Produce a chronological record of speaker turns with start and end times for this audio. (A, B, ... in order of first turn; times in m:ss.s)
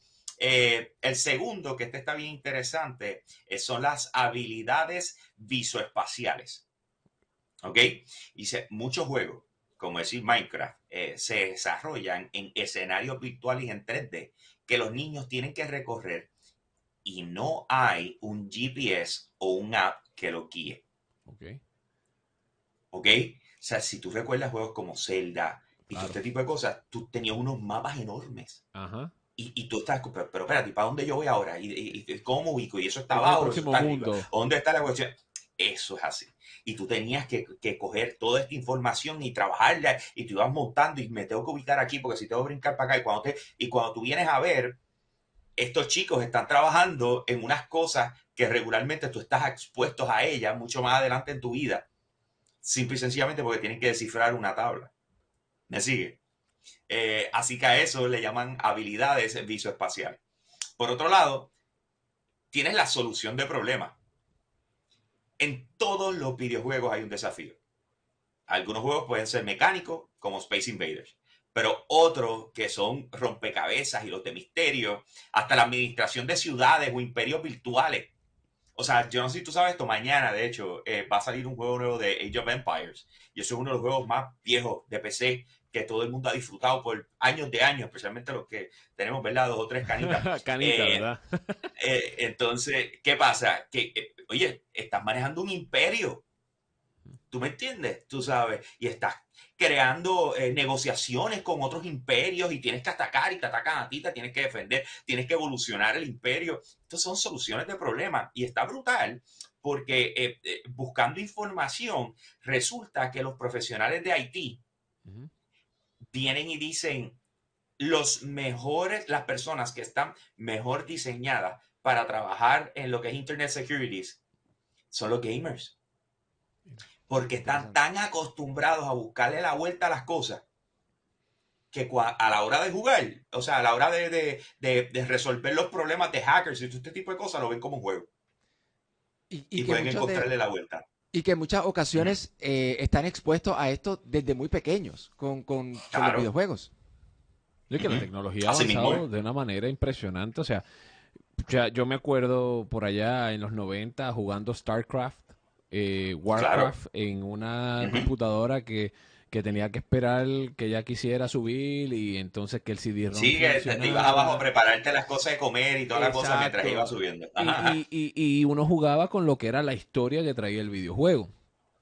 0:00.4-0:06.6 A
0:07.6-0:16.3 A
0:17.0-0:20.8 A
0:21.2-0:21.6 B
0:22.9-0:28.6 A
0:25.9-0:26.2 B
0:28.7-0:29.1 B
0:29.4-0:44.8 A
0:33.1-0:34.3 B
0:45.6-0:51.8 A
0:52.6-0:54.9 A
0:55.7-0:56.2 A
0:56.9-1:00.2 A
1:00.8-1:01.5 A
1:02.5-1:04.0 A
1:05.4-1:07.6 A
1:08.5-1:18.1 A
1:18.8-1:31.0 A
1:30.0-1:31.7 B
1:31.8-1:36.2 A
1:37.3-1:54.6 A
1:56.1-1:57.2 A
1:57.8-2:04.2 A
2:04.9-2:05.7 A
2:07.1-2:10.4 A
2:11.7-2:18.1 A
2:19.3-2:20.3 C
2:19.6-2:20.8 A
2:21.1-2:26.7 C
2:25.9-2:26.3 A
2:27.7-2:30.6 B
2:27.7-2:29.0 A
2:31.4-2:44.4 B
2:36.4-2:36.7 A
2:37.8-2:38.1 A
2:43.1-2:47.8 A
2:45.9-2:51.3 B